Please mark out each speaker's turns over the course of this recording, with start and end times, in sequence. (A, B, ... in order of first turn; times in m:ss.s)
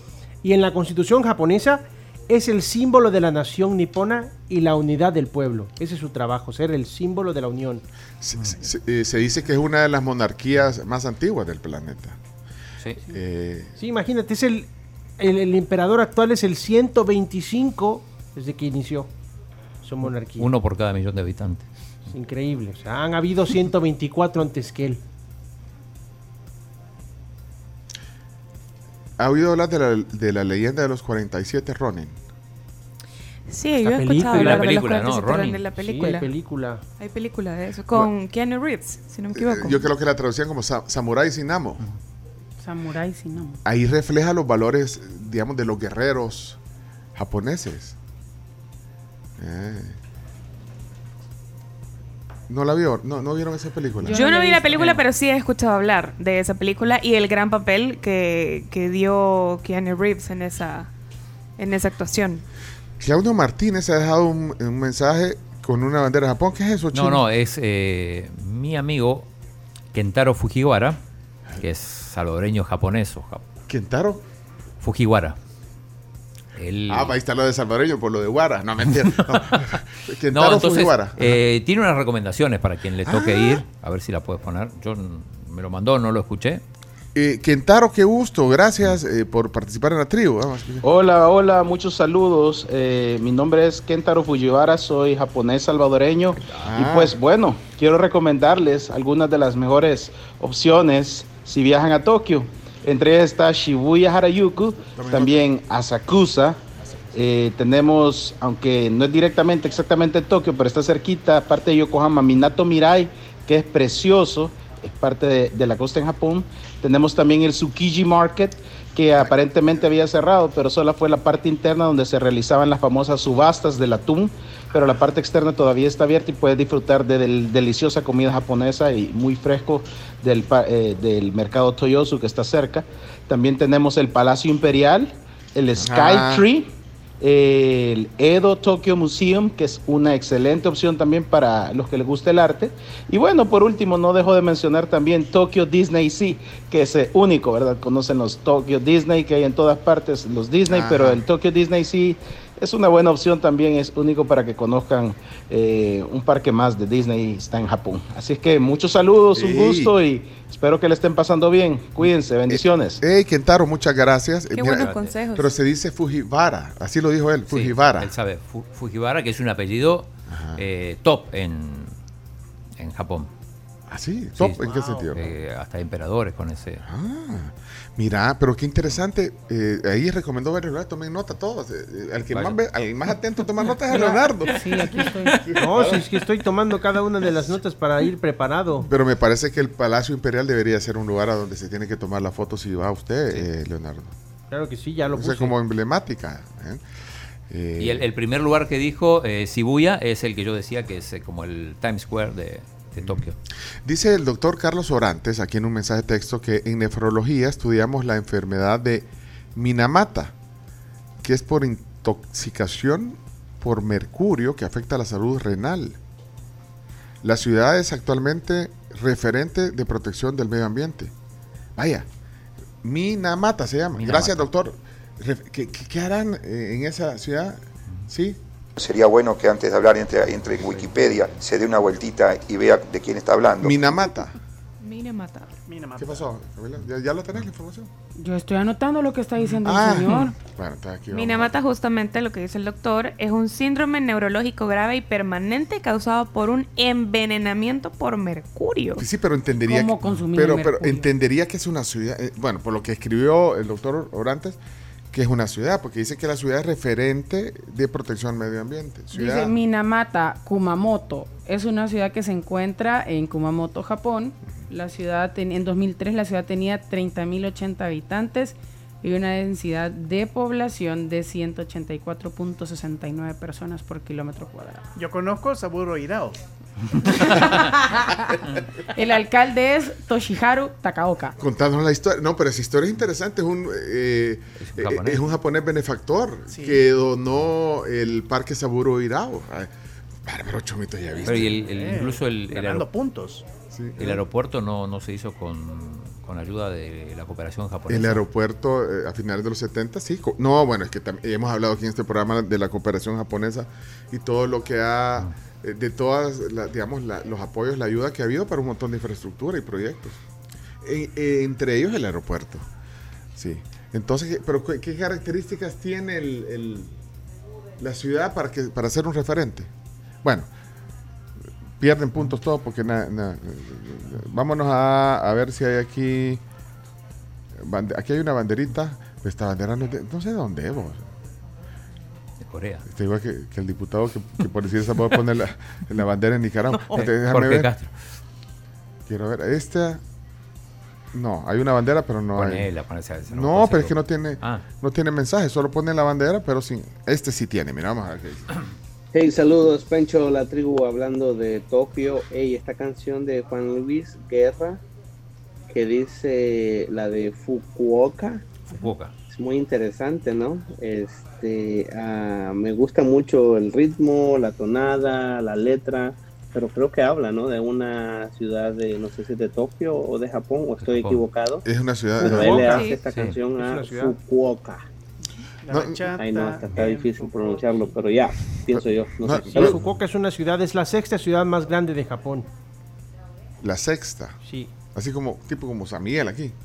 0:00.4-0:07.8 A
0:08.2-0:12.2 B
0:13.1-0:13.7 B
0:13.8-0:19.1 A
0:19.8-0:20.5 A
0:20.4-0:21.6 C
0:22.1-0:25.0 A
0:29.2-0:32.2 B
0:33.5-0:36.3 D
0:33.8-0:34.7 A
0:34.2-0:35.7 C
0:35.8-0:36.8 A
0:37.0-0:39.9 D
0:39.3-0:41.8 B
0:42.6-0:43.6 E
0:43.6-0:46.6 B
0:47.2-0:48.0 B
0:49.4-0:50.0 B
0:52.5-0:54.2 B
0:54.0-0:55.0 E
0:54.1-1:00.9 D
1:01.6-1:02.4 D
1:03.0-1:07.2 B
1:06.9-1:09.3 C
1:09.9-1:11.0 C
1:11.6-1:13.4 C
1:13.7-1:14.2 B
1:14.8-1:15.4 C
1:16.6-1:17.2 C
1:16.9-1:21.4 B
1:19.3-1:19.6 C
1:20.3-1:26.6 C
1:23.1-1:23.6 B
1:27.2-1:30.8 B
1:30.8-1:46.6 F
1:36.6-1:37.2 B
1:45.0-1:45.4 B
1:47.1-2:16.7 F
2:15.8-2:16.5 B
2:17.2-2:43.0 F
2:30.7-2:31.2 B
2:39.4-2:39.9 B
2:42.5-2:48.1 B
2:44.5-2:45.5 D
2:44.8-2:45.1 C
2:47.5-2:52.0 C
2:50.3-2:50.6 B
2:52.8-2:53.3 C
2:53.9-2:55.3 B
2:54.4-2:56.8 C
2:56.8-3:04.9 B
3:02.3-3:02.6 C
3:03.9-3:05.4 E
3:05.4-3:06.1 B
3:05.6-3:08.9 A
3:08.8-3:14.1 B
3:14.5-3:15.5 A
3:15.1-3:16.8 B
3:17.5-3:18.1 B
3:17.8-3:23.4 C
3:23.8-3:30.3 B
3:31.2-3:36.0 B
3:37.2-3:41.1 B
3:41.8-3:42.1 B
3:42.8-3:48.4 B
3:44.0-3:44.5 C
3:48.8-3:53.8 G
3:50.6-3:51.3 C
3:53.6-3:54.4 B
3:54.8-3:55.5 D
3:55.7-3:56.3 H
3:56.0-3:57.9 B
3:58.2-4:00.3 E
3:59.6-4:01.5 B
4:01.1-4:09.0 D
4:09.0-4:14.6 B
4:09.6-4:11.1 E
4:15.1-4:19.5 B
4:19.1-4:34.8 E
4:35.0-4:36.4 H
4:37.2-4:38.2 E
4:38.9-4:41.4 E
4:41.4-4:49.7 B
4:44.6-4:45.2 C
4:46.5-4:46.8 H
4:50.2-4:51.6 B
4:51.2-4:52.9 C
4:51.7-4:53.5 H
4:53.7-4:54.2 B
4:54.0-4:58.2 C
4:57.9-5:10.2 B
5:10.8-5:12.7 B
5:13.4-5:17.0 B
5:17.8-5:19.7 B
5:20.2-5:20.5 B
5:21.8-5:26.4 B
5:27.6-5:31.0 B
5:32.4-5:32.8 C
5:32.9-5:37.7 B
5:36.9-5:37.9 C
5:39.1-5:40.0 B
5:41.1-5:42.7 B
5:42.4-5:44.6 C
5:43.3-5:48.5 B
5:49.1-5:54.8 I
5:55.7-5:58.5 I
5:58.7-5:59.1 C
5:59.3-6:11.6 I
6:10.8-6:11.2 C
6:11.6-6:12.8 B
6:12.2-6:14.8 I
6:12.3-6:12.8 A
6:12.6-6:13.0 D
6:13.1-6:13.4 C
6:13.5-6:14.2 A
6:15.6-6:17.9 H
6:15.7-6:16.1 B
6:16.2-6:19.8 I
6:18.7-6:19.8 B
6:19.5-6:22.5 A
6:23.6-6:24.4 B
6:24.4-6:24.7 A
6:24.9-6:26.6 B